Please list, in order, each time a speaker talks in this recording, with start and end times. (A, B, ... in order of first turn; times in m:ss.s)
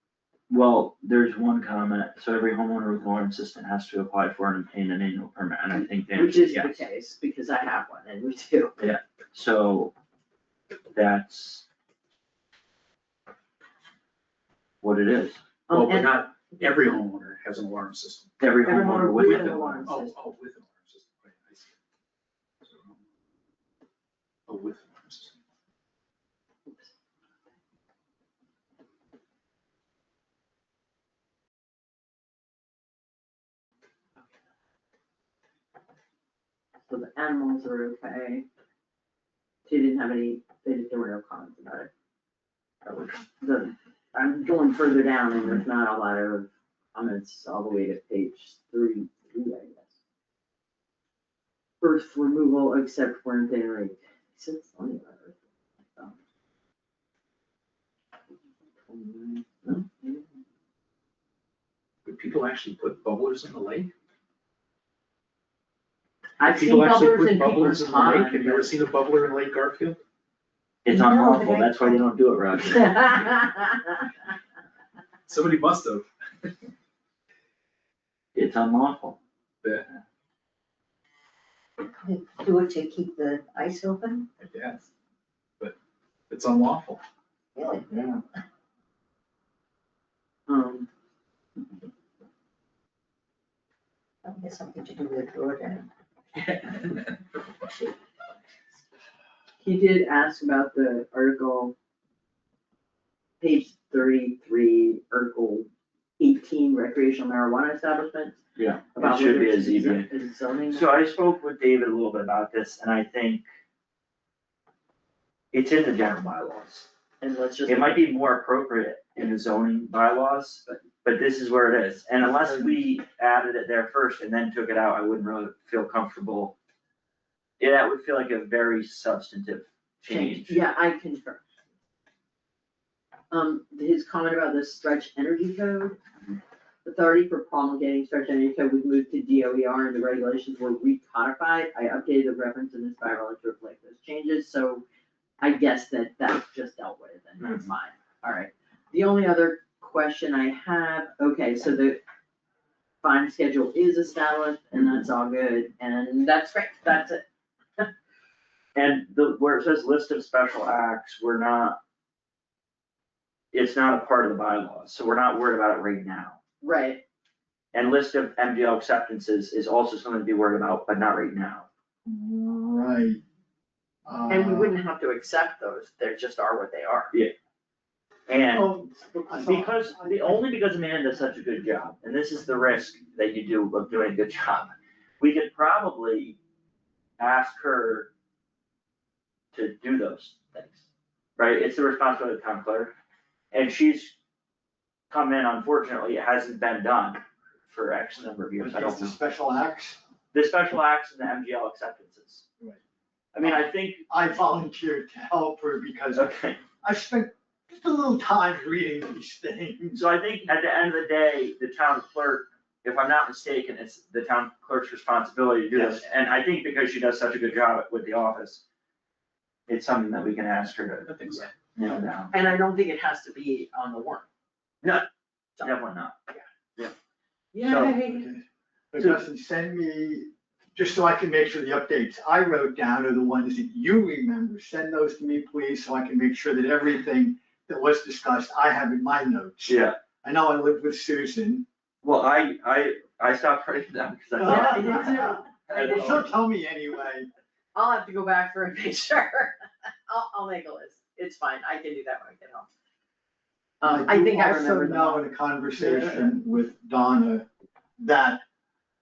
0:00.5-0:06.8 A
0:06.1-0:08.8 B
0:08.8-0:09.9 A
0:10.9-0:11.6 A
0:14.8-0:15.4 A
0:15.7-0:16.1 B
0:15.7-0:18.3 C
0:18.4-0:19.8 A
0:18.6-0:20.2 B
0:19.1-0:21.7 C
0:22.6-0:23.0 C
0:24.5-0:25.4 C
0:36.9-0:38.5 B
0:39.7-0:41.9 B
0:42.8-0:50.0 B
0:51.8-0:55.4 B
0:58.9-1:00.2 B
1:02.0-1:03.9 C
1:06.4-1:08.7 B
1:06.4-1:10.0 C
1:10.8-1:13.2 A
1:10.9-1:12.0 D
1:12.8-1:13.9 B
1:15.3-1:16.5 C
1:18.4-1:19.2 A
1:21.8-1:24.3 D
1:24.4-1:24.9 C
1:26.3-1:27.0 C
1:27.6-1:28.2 D
1:30.5-1:30.9 B
1:34.2-1:35.9 D
1:39.6-1:41.8 B
1:43.4-1:45.7 B
1:46.2-1:48.4 B
1:48.6-1:50.1 A
1:49.0-1:51.0 B
1:50.7-1:53.4 A
1:55.5-1:56.9 A
1:57.2-1:58.1 B
1:57.7-2:06.6 A
2:02.2-2:02.7 E
2:07.6-2:10.6 A
2:10.1-2:11.5 B
2:13.3-2:16.0 B
2:16.8-2:24.8 B
2:25.4-2:32.0 B
2:27.4-2:27.7 A
2:33.0-2:37.2 B
2:38.8-2:41.8 A
2:43.5-2:46.4 A
2:46.6-2:47.0 B
2:47.7-2:51.7 A
2:52.1-2:53.2 E
2:54.1-2:54.7 E
2:54.3-2:57.1 B
2:58.3-2:58.7 A
2:58.5-3:00.4 E
2:59.3-3:06.4 A
3:07.2-3:08.1 A
3:09.5-3:10.8 A
3:11.4-3:12.9 A
3:13.5-3:14.2 A
3:15.1-3:19.2 A
3:18.6-3:20.0 E
3:20.3-3:22.4 A
3:23.3-3:24.1 A
3:23.4-3:26.3 E
3:26.1-3:26.6 A
3:26.8-3:30.0 E
3:29.9-3:38.6 A
3:39.7-3:41.1 A
3:41.0-3:41.5 C
3:41.7-3:42.3 A
3:42.3-3:44.3 B
3:45.6-3:46.2 A
3:47.5-3:48.3 B
3:47.6-3:48.0 A
3:47.7-4:01.6 E
3:59.6-4:00.0 A
4:02.0-4:06.3 A
4:04.4-4:07.3 E
4:04.4-4:06.2 B
4:07.7-4:09.5 B
4:10.1-4:12.7 B
4:13.8-4:15.2 B
4:13.8-4:17.5 E
4:18.0-4:18.4 E